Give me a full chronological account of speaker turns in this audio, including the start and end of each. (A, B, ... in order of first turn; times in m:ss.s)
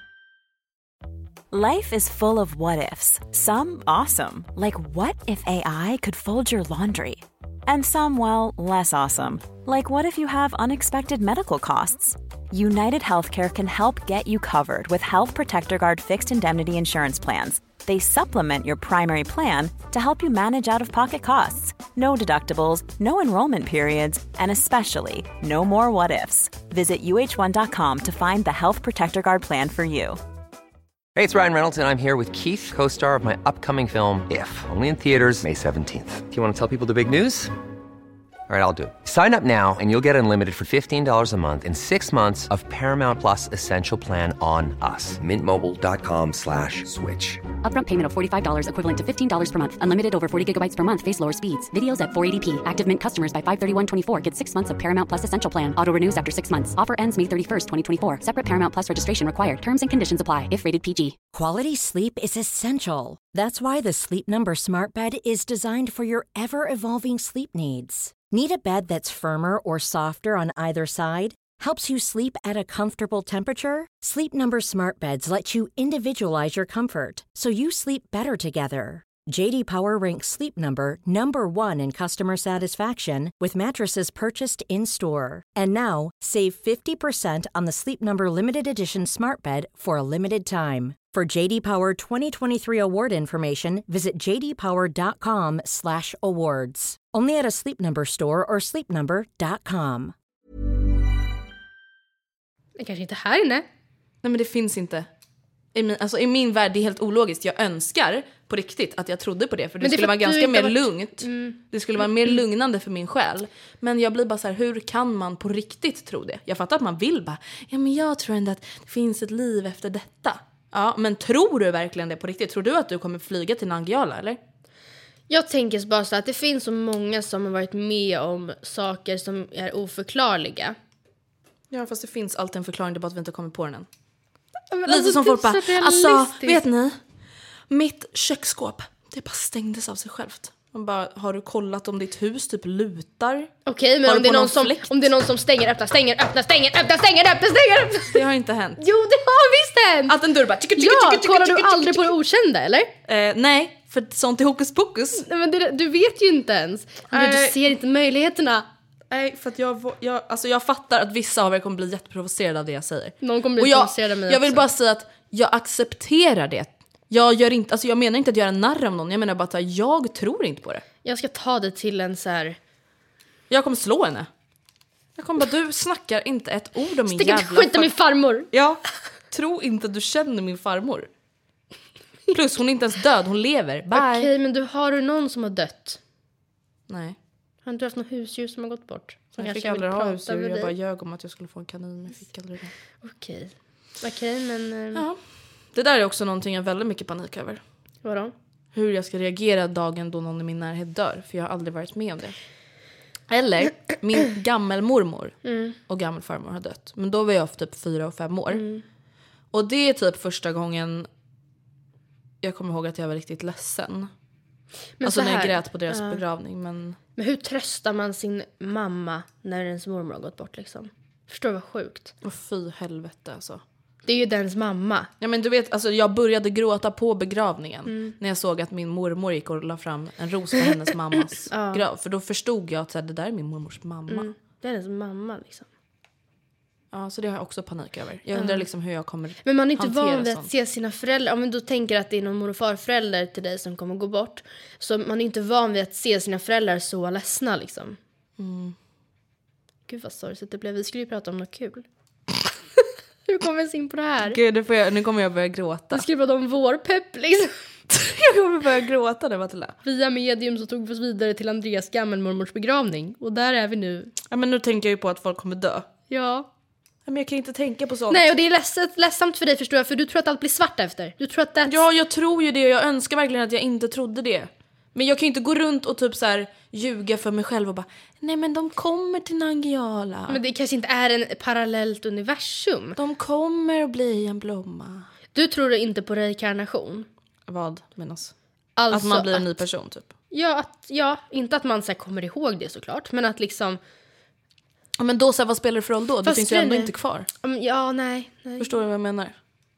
0:01.5-0:30.2 A
0:31.2-0:37.5 B
0:38.5-0:47.4 B
0:47.6-1:01.2 C
1:01.3-1:40.1 D
1:42.8-1:43.6 E
1:44.2-1:45.1 F
1:45.7-2:04.4 F
1:49.8-1:51.6 E
2:05.3-2:10.8 E
2:11.7-2:13.9 F
2:14.7-2:16.6 E
2:14.9-2:17.0 F
2:17.7-2:23.5 F
2:23.6-2:28.2 E
2:24.0-2:24.9 F
2:28.1-2:28.8 F
2:28.8-2:30.2 E
2:30.1-2:32.1 F
2:30.8-2:32.9 E
2:33.1-2:35.2 F
2:35.2-2:38.6 E
2:37.1-2:37.6 F
2:39.1-2:50.8 F
2:43.2-2:44.6 E
2:51.0-2:52.6 E
2:53.5-2:54.3 F
2:55.2-2:57.9 F
2:57.1-2:58.5 E
2:58.5-3:01.1 F
3:02.3-3:04.3 F
3:03.9-3:06.0 E
3:06.9-3:07.2 F
3:07.6-3:10.7 E
3:09.4-3:12.7 F
3:13.0-3:15.0 E
3:15.7-3:17.6 F
3:18.0-3:18.3 E
3:18.7-3:22.4 F
3:23.3-3:28.6 F
3:25.4-3:25.8 E
3:28.5-3:28.8 E
3:29.5-3:31.1 F
3:32.4-3:34.1 F
3:35.0-3:36.2 E
3:35.0-3:37.0 F
3:37.2-3:42.1 E
3:42.2-3:43.6 F
3:44.0-3:45.1 E
3:45.2-3:54.3 F
3:47.9-3:48.1 E
3:51.5-3:51.8 E
3:54.1-3:55.7 E
3:56.9-4:00.5 F
3:58.3-3:58.6 E
3:59.4-4:08.0 E
4:08.4-4:08.7 F
4:09.9-4:11.8 E
4:13.3-4:14.4 E
4:14.2-4:16.0 F
4:15.9-4:17.5 E
4:17.9-4:19.8 F
4:19.8-4:24.1 E
4:24.3-4:25.9 F
4:26.1-4:26.5 E
4:27.0-4:28.3 F
4:28.1-4:31.8 E
4:31.7-4:40.4 F
4:40.3-4:43.0 E
4:43.0-4:45.1 F
4:45.3-4:47.1 E
4:47.5-4:48.3 F
4:48.8-4:49.6 E
4:48.9-4:50.1 F
4:50.3-4:53.8 E
4:55.0-4:57.3 F
4:56.2-4:58.7 E
4:58.6-4:59.3 F